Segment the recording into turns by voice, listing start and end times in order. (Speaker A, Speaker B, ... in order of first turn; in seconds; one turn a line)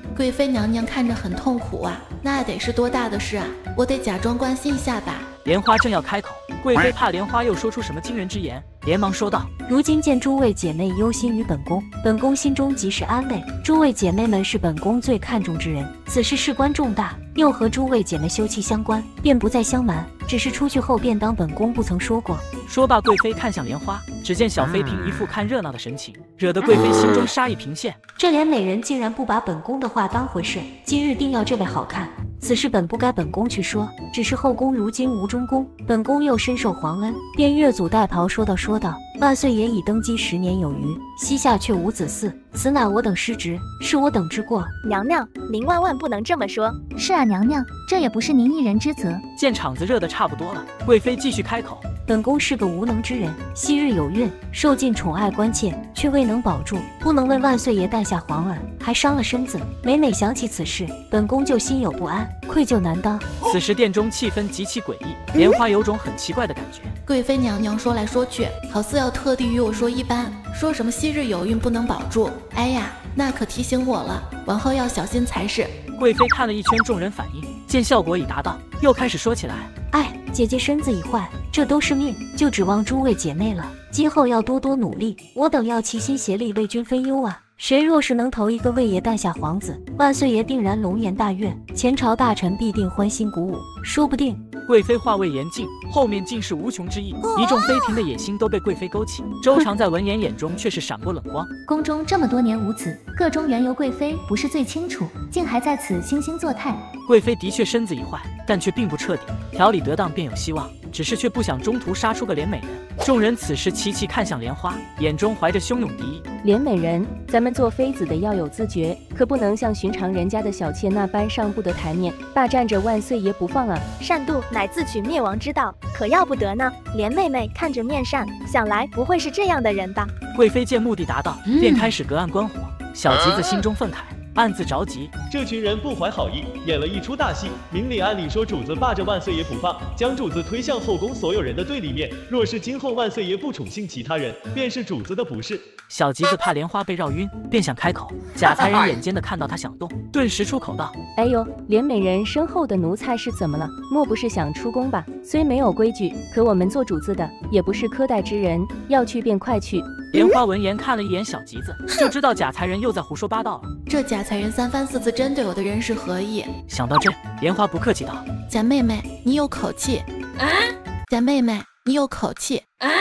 Speaker A: 0.1-5.3
Speaker B: 5.5-9.5
Speaker C: 9.7-22.5
Speaker B: 22.7-28.0
Speaker C: 28.2-44.7
Speaker D: 44.8-46.8
Speaker E: 47.0-49.2
Speaker B: 49.4-51.8
Speaker C: 52.1-63.3
Speaker B: 63.5-66.9
Speaker A: 67.1-75.8
Speaker B: 76.0-79.7
Speaker C: 79.9-94.4
Speaker B: 94.7-101.5
Speaker E: 101.7-106.8
Speaker B: 107.1-116.2
Speaker F: 116.4-123.9
Speaker D: 124.0-130.1
Speaker B: 130.3-135.1
Speaker G: 135.3-145.7
Speaker B: 145.9-150.9
Speaker F: 151.2-160.1
Speaker B: 160.1-163.7
Speaker A: 163.9-166.5
Speaker B: 166.7-168.2
Speaker A: 168.5-170.1
Speaker A: 171.1-172.7